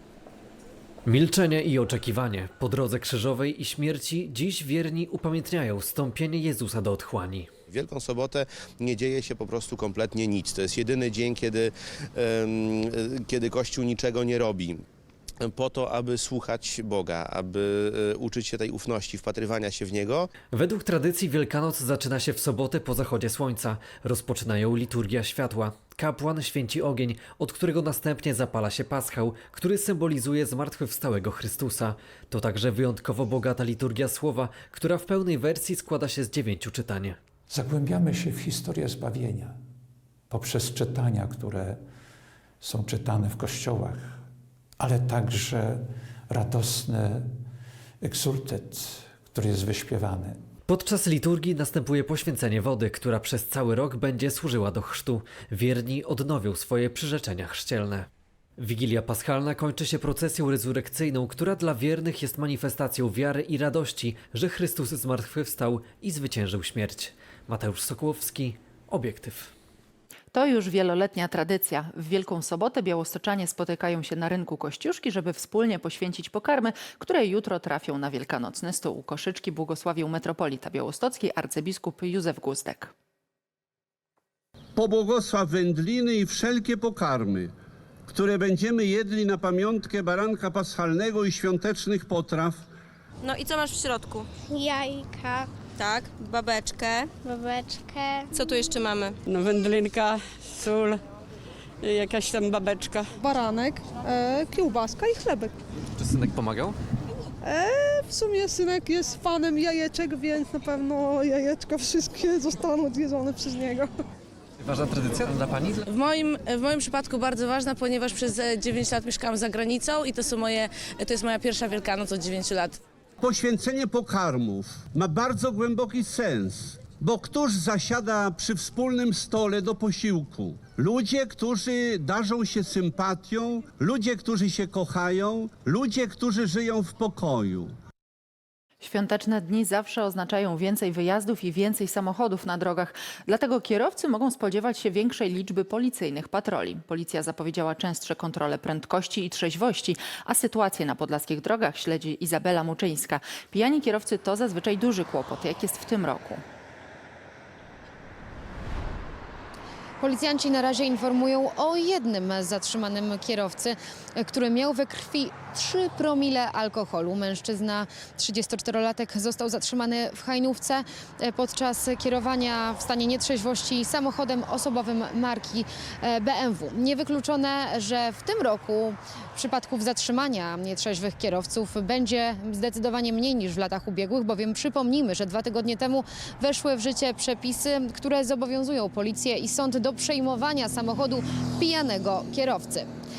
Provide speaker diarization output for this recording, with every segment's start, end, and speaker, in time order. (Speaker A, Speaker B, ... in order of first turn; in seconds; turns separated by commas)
Speaker A: 1.1-7.5, Speaker B: 7.7-14.8, Speaker B: 15.4-20.3, Speaker A: 20.5-37.2, Speaker C: 37.5-39.5, Speaker C: 40.3-41.8, Speaker C: 42.6-44.1, Speaker C: 44.8-47.3, Speaker C: 48.0-50.4, Speaker A: 50.7-58.1, Speaker A: 58.6-69.5, Speaker D: 70.3-82.9, Speaker E: 84.8-87.5, Speaker E: 88.1-92.7, Speaker F: 93.2-99.8, Speaker G: 99.3-101.0, Speaker G: 101.9-103.0, Speaker H: 103.2-105.5, Speaker A: 106.0-106.8, Speaker H: 107.4-113.9, Speaker A: 114.6-115.8, Speaker I: 117.7-120.6, Speaker I: 121.3-122.7, Speaker E: 123.2-137.7, Speaker D: 138.8-156.4, Speaker J: 160.0-192.9